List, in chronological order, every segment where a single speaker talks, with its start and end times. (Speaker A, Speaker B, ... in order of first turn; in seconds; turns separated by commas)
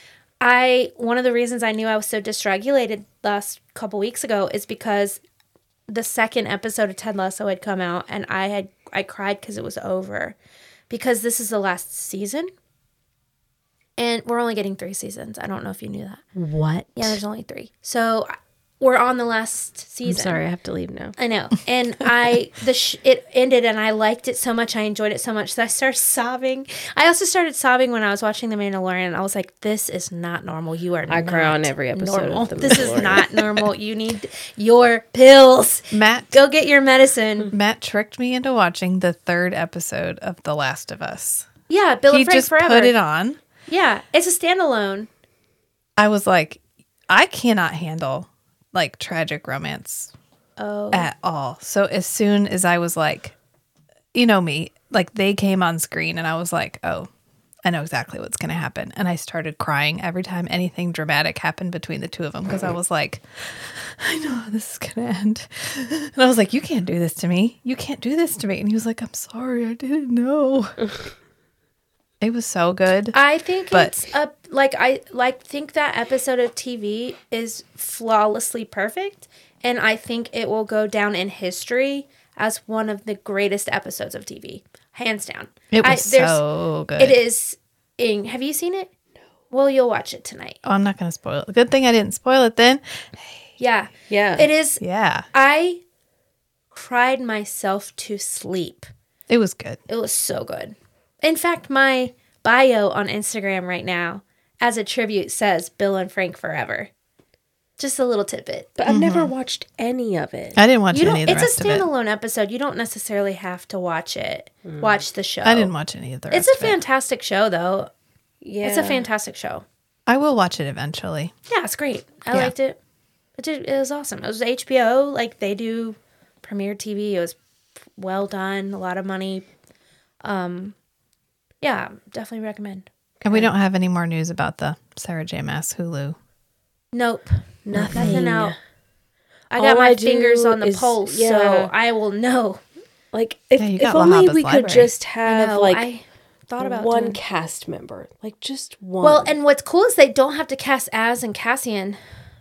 Speaker A: 0.4-5.2, Speaker A: 5.9-10.4, Speaker A: 10.9-12.5, Speaker A: 14.0-16.2, Speaker B: 16.4-17.2, Speaker A: 17.0-20.4, Speaker B: 20.1-21.1, Speaker A: 21.2-37.5, Speaker B: 31.1-33.5, Speaker C: 35.9-36.4, Speaker C: 37.5-41.5, Speaker A: 41.7-43.0, Speaker C: 42.1-43.4, Speaker A: 43.7-45.1, Speaker C: 46.0-50.1, Speaker A: 50.6-51.1, Speaker C: 50.9-53.4, Speaker C: 54.1-57.1, Speaker C: 57.6-70.8, Speaker C: 72.2-73.2, Speaker A: 73.1-86.4, Speaker C: 85.7-87.2, Speaker A: 87.0-88.9, Speaker A: 89.5-90.6, Speaker C: 90.6-93.5, Speaker A: 93.6-94.8, Speaker B: 94.1-94.5, Speaker C: 94.8-95.3, Speaker A: 95.3-95.8, Speaker A: 96.7-98.9, Speaker C: 99.3-99.8, Speaker A: 99.9-106.9, Speaker A: 107.8-108.8, Speaker B: 108.8-110.6, Speaker C: 108.9-109.3, Speaker C: 110.6-111.9, Speaker A: 110.9-115.7, Speaker B: 114.7-115.0, Speaker C: 115.4-116.8, Speaker A: 116.3-117.9, Speaker B: 118.4-119.0, Speaker A: 118.6-119.7, Speaker C: 120.1-121.3, Speaker A: 121.5-122.8, Speaker A: 123.4-127.4, Speaker A: 128.0-129.5, Speaker A: 130.2-130.8, Speaker A: 131.6-132.9, Speaker C: 133.2-136.2, Speaker A: 136.9-138.6, Speaker B: 137.7-138.6, Speaker C: 137.7-138.2, Speaker A: 139.5-142.6, Speaker B: 139.6-141.7, Speaker B: 143.1-145.9, Speaker C: 143.6-144.9, Speaker A: 145.2-147.2, Speaker B: 146.6-149.3, Speaker A: 149.0-152.0